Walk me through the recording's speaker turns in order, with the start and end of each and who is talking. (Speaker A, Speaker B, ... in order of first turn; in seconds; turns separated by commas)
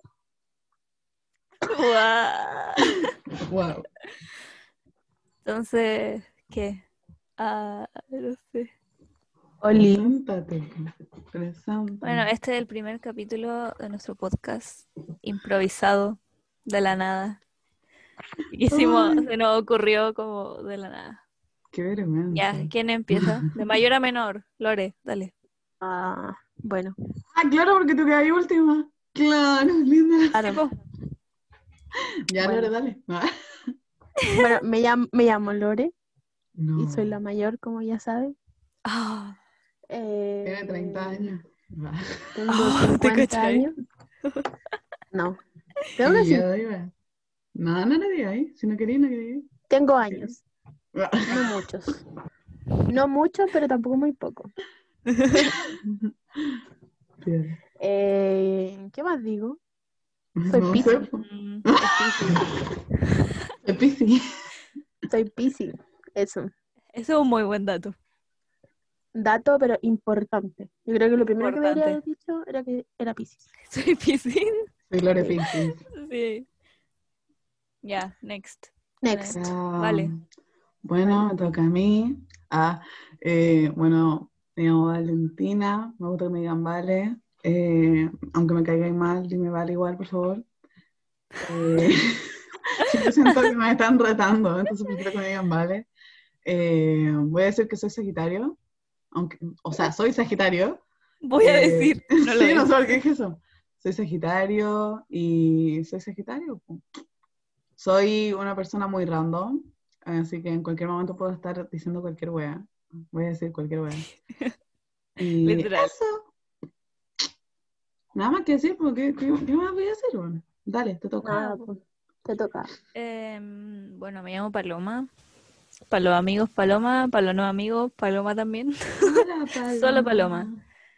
Speaker A: 1.7-3.1, Speaker B: 3.5-3.9, Speaker A: 5.5-6.8, Speaker A: 7.4-8.7, Speaker C: 9.6-10.1, Speaker B: 9.8-10.8, Speaker B: 11.3-12.3, Speaker A: 12.0-17.4, Speaker A: 18.5-21.2, Speaker B: 18.7-19.3, Speaker B: 21.7-23.3, Speaker A: 22.3-25.3, Speaker C: 25.8-27.0, Speaker B: 27.3-30.4, Speaker C: 30.3-30.6, Speaker A: 30.4-30.8, Speaker B: 32.3-33.3, Speaker C: 32.4-32.7, Speaker C: 34.4-35.9, Speaker B: 36.6-37.2, Speaker C: 36.8-38.4, Speaker A: 38.9-39.4, Speaker C: 39.9-41.3, Speaker B: 40.5-42.3, Speaker C: 42.4-43.7, Speaker A: 42.5-43.7, Speaker C: 45.1-45.4, Speaker C: 46.0-46.5, Speaker B: 46.0-46.9, Speaker B: 47.5-49.5, Speaker C: 49.7-50.4, Speaker B: 50.1-50.4, Speaker B: 51.0-51.5, Speaker C: 51.3-52.0, Speaker C: 52.9-54.5, Speaker A: 55.1-55.6, Speaker B: 55.4-56.6, Speaker B: 57.2-57.6, Speaker C: 57.8-59.6, Speaker B: 60.4-62.5, Speaker C: 60.5-61.1, Speaker A: 61.1-62.5, Speaker B: 63.6-64.2, Speaker C: 65.1-66.5, Speaker A: 66.9-68.0, Speaker C: 69.1-73.5, Speaker A: 71.4-72.0, Speaker A: 73.7-74.7, Speaker B: 74.9-75.8, Speaker C: 75.2-75.4, Speaker A: 75.5-76.5, Speaker A: 77.8-80.1, Speaker C: 79.0-79.5, Speaker B: 79.3-80.2, Speaker B: 80.8-90.4, Speaker B: 91.4-95.9, Speaker B: 96.5-98.6, Speaker B: 99.1-100.8, Speaker A: 101.2-103.0, Speaker B: 101.4-106.8, Speaker B: 107.8-114.1, Speaker B: 115.2-116.3, Speaker A: 115.4-115.9, Speaker B: 118.2-121.4, Speaker C: 121.2-122.7, Speaker A: 121.3-121.7, Speaker A: 123.0-125.1, Speaker A: 125.9-129.2, Speaker B: 129.0-130.6, Speaker A: 129.8-130.5